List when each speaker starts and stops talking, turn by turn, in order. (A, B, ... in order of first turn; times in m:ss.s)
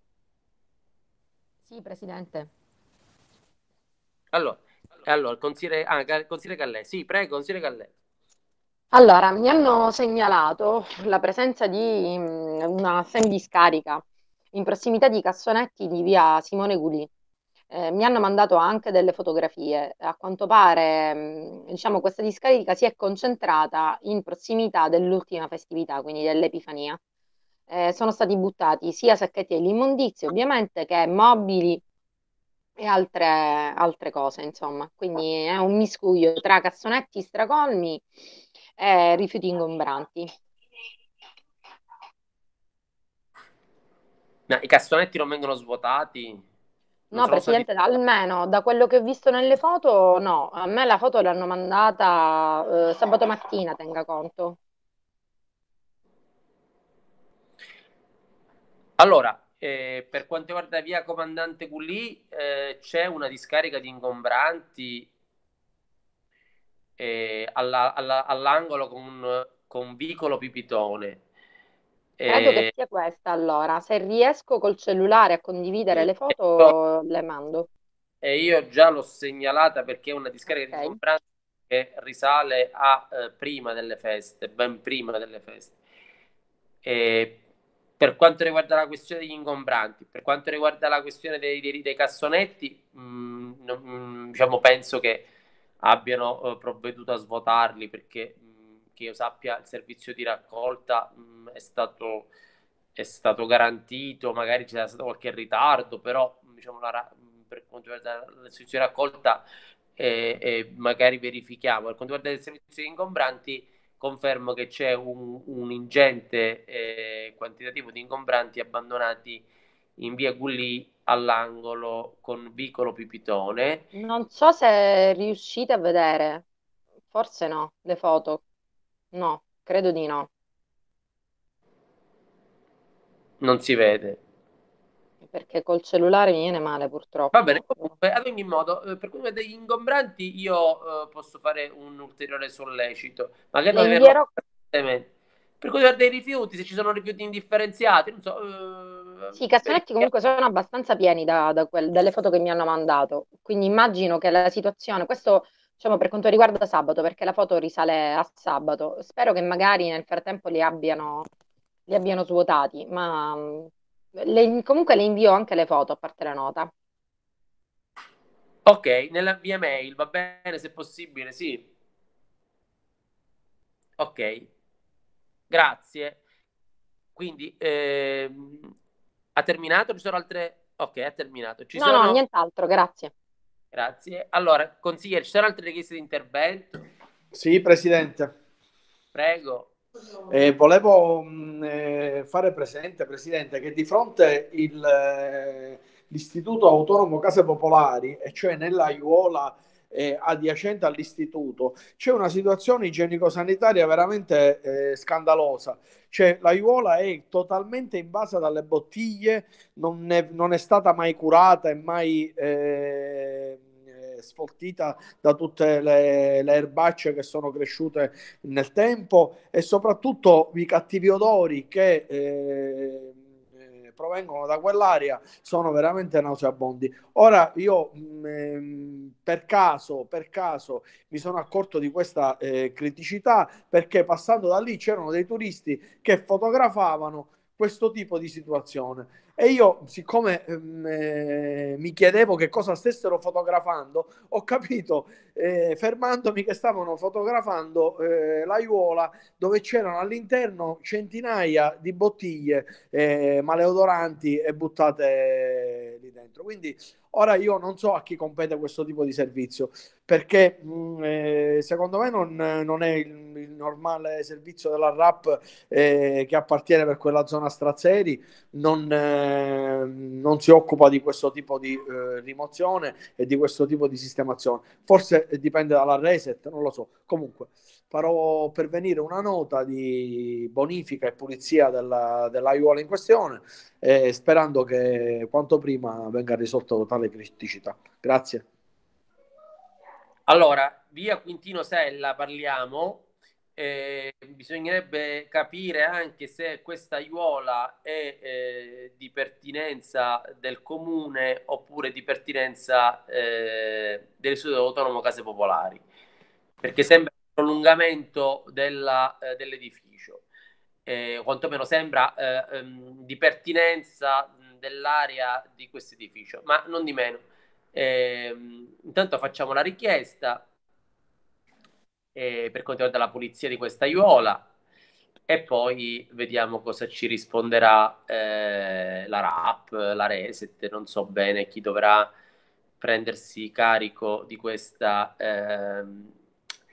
0:01.7-0:02.5 A
0:04.3-0:07.9 B
0:08.9-0:17.1 A
0:17.7-0:27.0 A
0:27.7-0:31.8 A
0:32.8-0:38.1 A
0:38.8-0:40.3 A
0:44.5-0:46.4 B
0:47.1-0:47.7 B
0:47.1-0:54.6 A
0:59.0-1:05.1 B
1:07.0-1:11.2 B
1:12.2-1:12.7 B
1:12.3-1:17.7 A
1:18.2-1:25.7 B
1:20.6-1:21.0 A
1:26.8-1:27.4 B
1:28.0-1:35.2 B
1:35.8-1:42.3 B
1:43.0-1:49.4 B
1:50.0-1:59.4 B
2:00.0-2:03.8 B
2:04.0-2:06.4 A
2:07.1-2:08.4 A
2:09.1-2:10.3 A
2:13.4-2:14.2 B
2:15.2-2:17.8 A
2:17.3-2:24.2 B
2:23.7-2:24.3 A
2:24.7-2:25.1 B
2:25.6-2:30.1 B
2:29.3-2:41.3 A
2:41.9-2:46.7 A
2:48.7-2:51.6 B
2:54.0-2:54.5 B
2:55.5-2:56.2 B
2:57.2-2:58.7 B
2:59.4-3:02.2 B
3:01.7-3:03.1 A
3:03.7-3:06.7 B
3:07.3-3:08.3 C
3:09.1-3:09.7 B
3:10.3-4:48.4 C
4:50.3-4:53.0 B
4:53.6-5:05.8 B
5:06.6-5:10.2 B
5:10.9-5:20.4 B
5:22.1-5:24.4 B
5:25.3-5:32.1 B
5:32.8-5:36.1 B